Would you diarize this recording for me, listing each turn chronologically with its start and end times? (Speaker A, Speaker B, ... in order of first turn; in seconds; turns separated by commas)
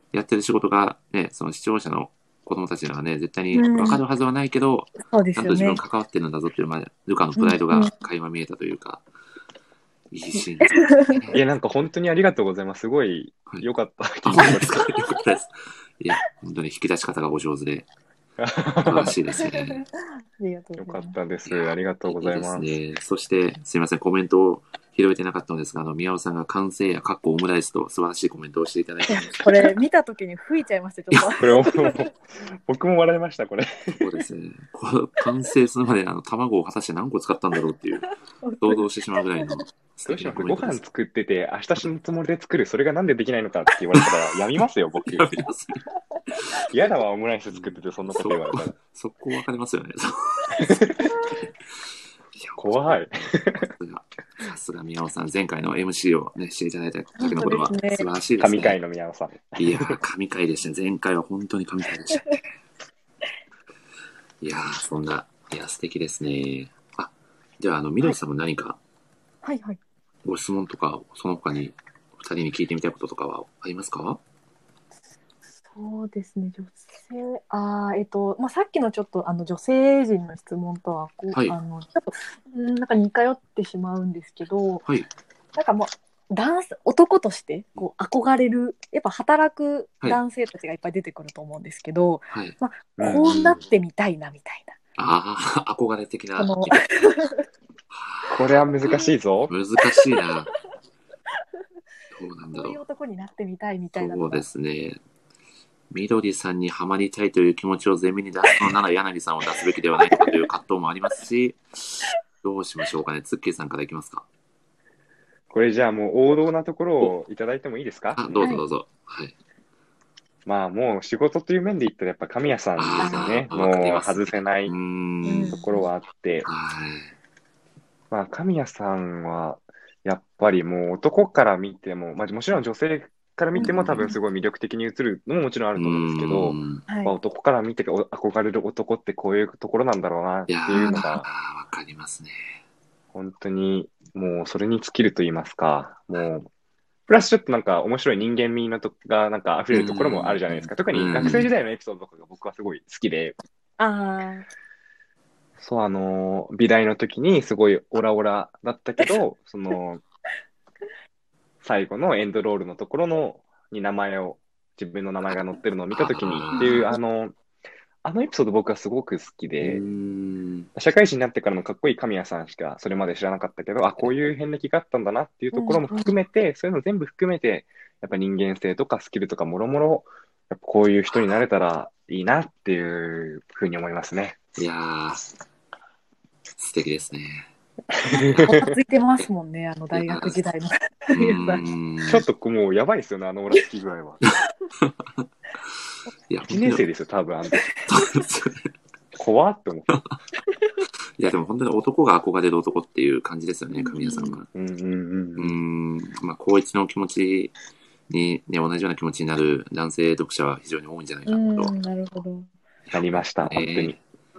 Speaker A: 0.1-9.0, Speaker B: 3.5-4.0, Speaker B: 5.0-5.8, Speaker B: 7.4-7.9, Speaker A: 10.1-11.4, Speaker B: 10.4-11.2, Speaker C: 11.3-14.8, Speaker A: 14.2-17.9, Speaker C: 18.4-19.1, Speaker A: 18.8-19.8, Speaker B: 19.4-21.1, Speaker C: 20.8-22.7, Speaker A: 21.4-29.4, Speaker B: 29.1-32.1, Speaker C: 31.4-34.0, Speaker A: 34.0-40.8, Speaker B: 38.0-39.5, Speaker C: 40.1-45.4, Speaker A: 45.0-46.5, Speaker C: 46.7-48.7, Speaker A: 47.5-50.9, Speaker C: 50.7-51.1, Speaker A: 52.3-58.8, Speaker C: 52.6-53.7, Speaker B: 57.2-58.0, Speaker C: 58.4-60.0, Speaker A: 59.5-62.4, Speaker A: 64.4-68.8, Speaker B: 69.4-69.8, Speaker A: 70.2-74.2, Speaker B: 75.7-84.8, Speaker B: 85.5-94.8, Speaker A: 92.3-92.5, Speaker C: 93.0-93.4, Speaker A: 95.0-97.1, Speaker B: 96.4-97.4, Speaker A: 97.9-98.6, Speaker C: 98.3-99.5, Speaker B: 98.8-99.1, Speaker A: 99.5-100.5, Speaker B: 100.0-100.2, Speaker A: 102.1-102.8, Speaker B: 102.5-104.4, Speaker A: 104.0-105.0, Speaker A: 105.9-114.2, Speaker B: 110.0-110.3, Speaker C: 115.5-118.5, Speaker A: 118.2-119.3, Speaker C: 120.5-124.7, Speaker A: 122.8-125.6, Speaker B: 123.0-123.3, Speaker B: 125.2-125.8, Speaker C: 125.4-126.5, Speaker A: 126.5-127.1, Speaker C: 128.1-141.3, Speaker B: 133.5-134.2, Speaker A: 133.6-134.1, Speaker A: 135.8-136.8, Speaker B: 136.9-137.1, Speaker A: 140.5-142.6, Speaker B: 140.8-141.1, Speaker C: 143.1-146.5, Speaker C: 147.1-153.4, Speaker A: 149.7-151.5, Speaker B: 153.8-154.5, Speaker C: 155.6-160.0, Speaker C: 161.6-167.3, Speaker A: 165.9-166.9, Speaker B: 166.5-167.0, Speaker C: 168.0-169.8, Speaker A: 169.6-170.7, Speaker C: 170.7-184.4, Speaker B: 175.5-176.1, Speaker A: 181.1-181.4, Speaker A: 184.6-185.2, Speaker A: 186.6-187.5, Speaker C: 188.0-188.7, Speaker B: 188.0-191.6, Speaker A: 189.9-190.4, Speaker A: 191.1-192.2, Speaker C: 192.0-194.2, Speaker A: 194.2-196.8, Speaker C: 196.5-197.8, Speaker A: 197.9-198.7, Speaker C: 199.2-200.0, Speaker A: 201.2-204.5, Speaker B: 203.8-204.3, Speaker C: 204.5-205.6, Speaker A: 205.4-207.5, Speaker A: 208.1-211.7, Speaker B: 211.2-212.5, Speaker A: 212.9-214.0, Speaker C: 212.9-213.9